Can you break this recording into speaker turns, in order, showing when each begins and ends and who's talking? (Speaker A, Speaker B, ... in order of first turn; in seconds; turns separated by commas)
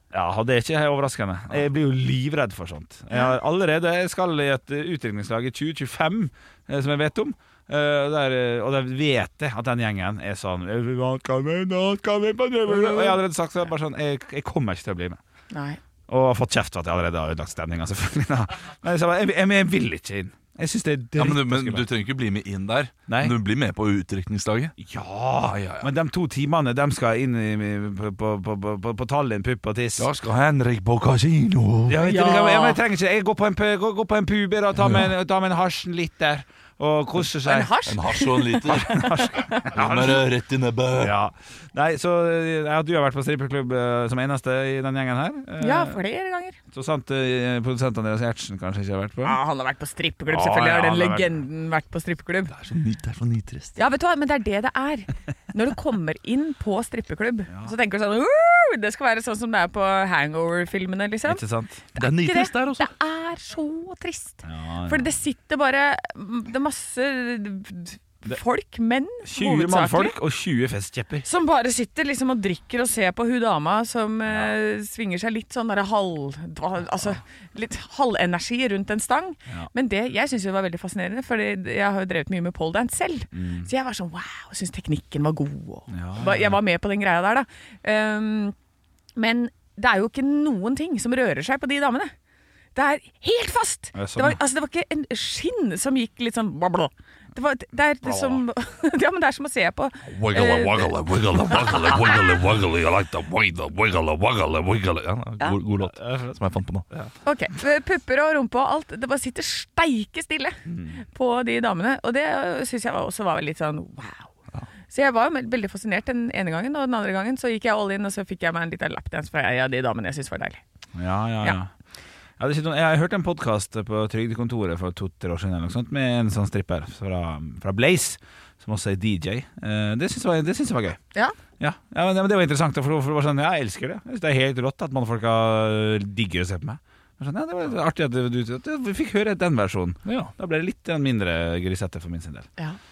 Speaker A: 0.1-15.2, Speaker B: 12.7-13.1, Speaker B: 15.5-15.8, Speaker A: 16.1-21.9, Speaker C: 21.2-24.8, Speaker A: 23.1-23.4, Speaker A: 24.8-30.1, Speaker C: 25.4-25.9, Speaker C: 30.0-32.0, Speaker A: 31.9-37.7, Speaker B: 32.0-32.8, Speaker C: 34.8-35.1, Speaker B: 37.4-39.5, Speaker C: 37.8-41.2, Speaker A: 38.7-40.4, Speaker A: 40.9-46.0, Speaker B: 45.6-46.6, Speaker A: 46.7-49.4, Speaker B: 49.2-52.5, Speaker A: 50.3-51.4, Speaker C: 52.5-53.8, Speaker B: 53.8-61.4, Speaker A: 61.2-61.8, Speaker B: 61.9-70.2, Speaker C: 62.0-62.9, Speaker A: 64.4-65.1, Speaker A: 69.2-71.2, Speaker B: 71.2-88.5, Speaker A: 74.2-74.5, Speaker A: 83.3-83.7, Speaker A: 85.9-86.6, Speaker B: 89.2-92.1, Speaker B: 92.7-100.9, Speaker A: 93.9-94.4, Speaker A: 98.0-98.4, Speaker C: 100.0-106.9, Speaker B: 101.5-102.0, Speaker A: 105.8-106.4, Speaker B: 107.2-110.6, Speaker A: 110.7-111.0, Speaker B: 111.1-114.3, Speaker B: 114.9-120.6, Speaker A: 120.9-121.7, Speaker A: 122.4-131.0, Speaker A: 131.6-142.5, Speaker C: 140.1-140.3